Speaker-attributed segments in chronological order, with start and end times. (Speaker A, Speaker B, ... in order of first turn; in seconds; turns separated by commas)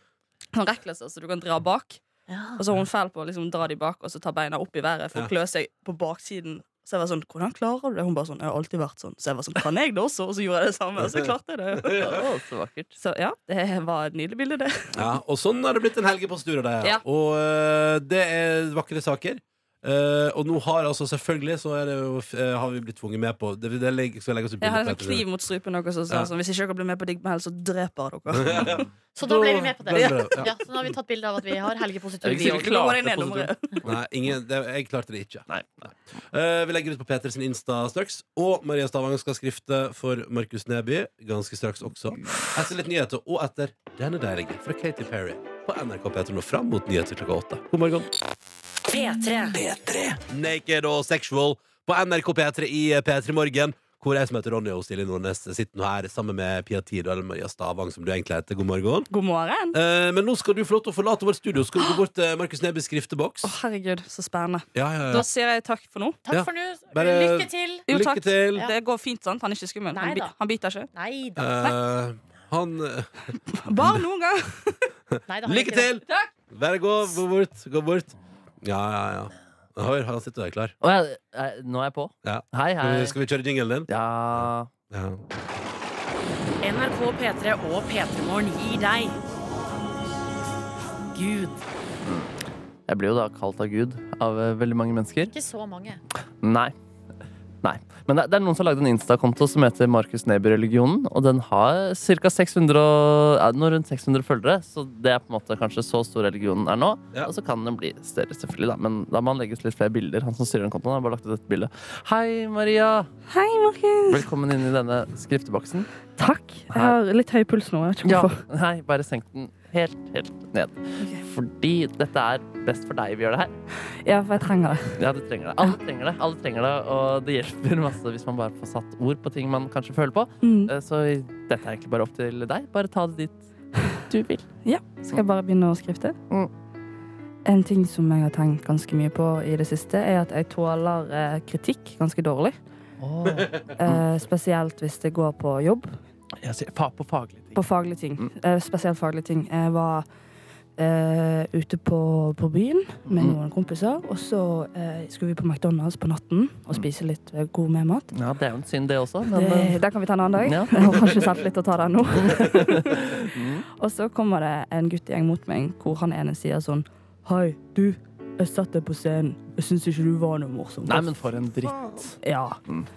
Speaker A: 0.5-2.0, Speaker B: 2.3-2.6, Speaker A: 2.6-12.2, Speaker C: 11.0-11.3, Speaker C: 11.8-12.2, Speaker D: 12.0-12.9, Speaker A: 13.0-15.1, Speaker C: 14.9-25.2, Speaker A: 24.6-28.8, Speaker C: 28.3-30.5, Speaker B: 29.1-32.8, Speaker A: 29.9-30.3, Speaker D: 32.2-33.5, Speaker A: 32.3-33.8, Speaker C: 33.8-48.1, Speaker E: 48.9-50.2, Speaker C: 50.3-59.1, Speaker A: 59.1-59.8, Speaker C: 59.7-63.5, Speaker A: 63.4-66.2, Speaker C: 64.7-65.3, Speaker B: 66.2-67.9, Speaker C: 66.3-68.7, Speaker A: 67.9-70.9, Speaker B: 69.9-70.3, Speaker B: 70.9-71.5, Speaker C: 71.4-73.1, Speaker A: 73.6-74.9, Speaker C: 75.2-80.7, Speaker B: 75.3-75.9, Speaker D: 80.8-83.2, Speaker C: 82.2-85.2, Speaker D: 83.9-84.7, Speaker E: 86.6-89.1, Speaker E: 91.1-91.6, Speaker D: 92.9-95.3, Speaker B: 95.3-96.0, Speaker D: 96.4-96.7, Speaker D: 97.6-113.1, Speaker A: 113.3-114.3, Speaker D: 114.1-115.9, Speaker A: 116.2-118.4, Speaker D: 116.7-117.0, Speaker D: 118.0-123.5, Speaker A: 124.0-125.0, Speaker D: 125.0-133.5, Speaker A: 130.4-130.7, Speaker D: 134.1-134.4, Speaker A: 134.6-136.2, Speaker A: 137.4-142.6, Speaker D: 143.0-144.0, Speaker A: 143.8-145.9, Speaker D: 146.4-147.6, Speaker A: 147.5-150.1, Speaker A: 150.8-158.1, Speaker D: 153.1-153.4, Speaker D: 158.1-159.8, Speaker A: 159.3-163.2, Speaker D: 160.4-161.3, Speaker D: 162.2-163.7, Speaker A: 163.8-171.1, Speaker D: 170.8-172.1, Speaker A: 172.2-172.6